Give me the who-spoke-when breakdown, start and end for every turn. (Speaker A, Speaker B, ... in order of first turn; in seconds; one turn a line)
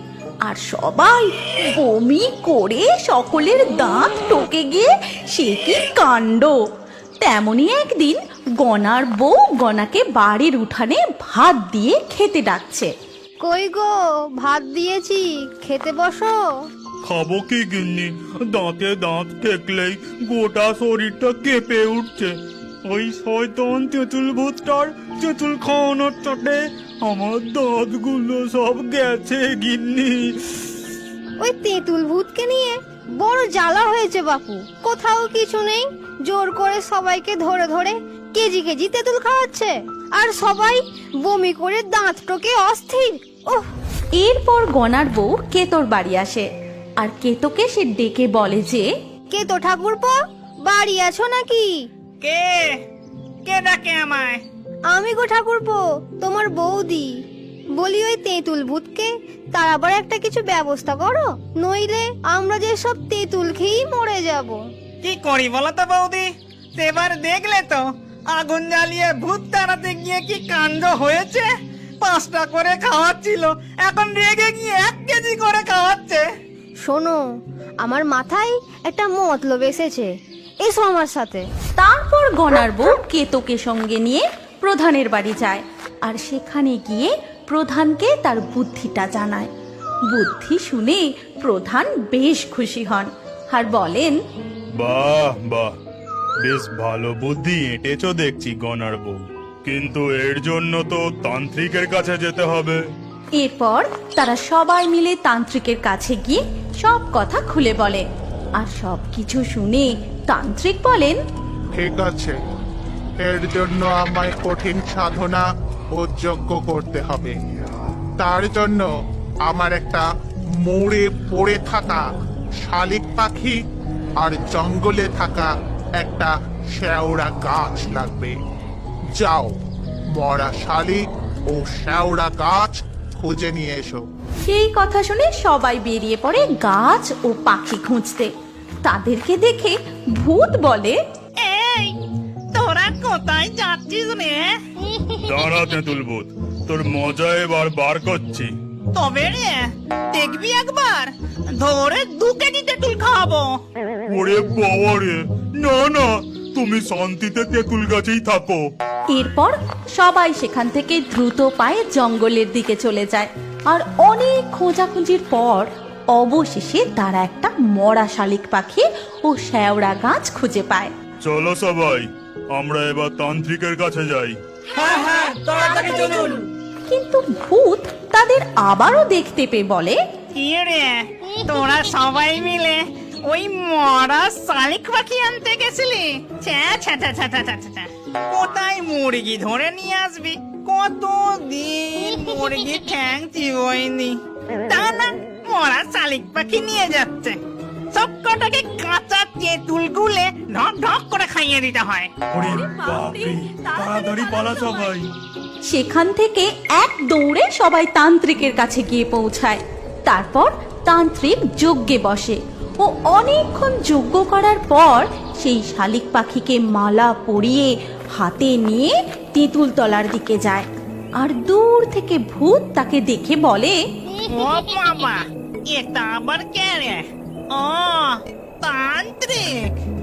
Speaker A: 0.5-6.6
Speaker A: 7.2-12.9
Speaker B: 13.4-16.4
Speaker C: 17.1-22.3
Speaker C: 22.9-30.5
Speaker B: 31.4-43.6
Speaker A: 44.2-46.5
Speaker A: 47.0-48.9
Speaker B: 49.3-50.1
Speaker B: 50.7-51.7
Speaker D: 52.2-52.7
Speaker D: 53.5-54.4
Speaker B: 54.9-57.1
Speaker B: 57.8-64.6
Speaker D: 65.0-71.5
Speaker D: 72.0-76.2
Speaker B: 76.9-77.2
Speaker B: 77.8-80.1
Speaker B: 80.6-81.4
Speaker A: 81.8-89.5
Speaker A: 90.1-94.2
Speaker C: 94.8-95.7
Speaker C: 96.4-102.8
Speaker A: 103.4-108.0
Speaker A: 108.6-111.2
Speaker E: 111.8-112.4
Speaker E: 113.2-117.4
Speaker E: 118.2-118.9
Speaker E: 119.5-120.0
Speaker E: 120.6-122.0
Speaker E: 122.6-123.6
Speaker E: 124.2-128.4
Speaker E: 129.2-129.6
Speaker E: 130.2-134.0
Speaker A: 134.5-138.3
Speaker A: 138.8-141.0
Speaker D: 141.4-141.9
Speaker D: 142.5-144.5
Speaker C: 145.2-148.5
Speaker D: 148.9-153.5
Speaker C: 154.1-158.6
Speaker A: 159.1-170.9
Speaker C: 171.2-174.4
Speaker D: 174.9-176.4
Speaker A: 176.9-180.0
Speaker D: 180.3-194.2
Speaker D: 194.7-197.4
Speaker D: 197.9-202.1
Speaker C: 202.3-205.1
Speaker A: 202.4-204.9
Speaker A: 205.7-220.7
Speaker A: 221.2-223.8
Speaker D: 224.3-229.7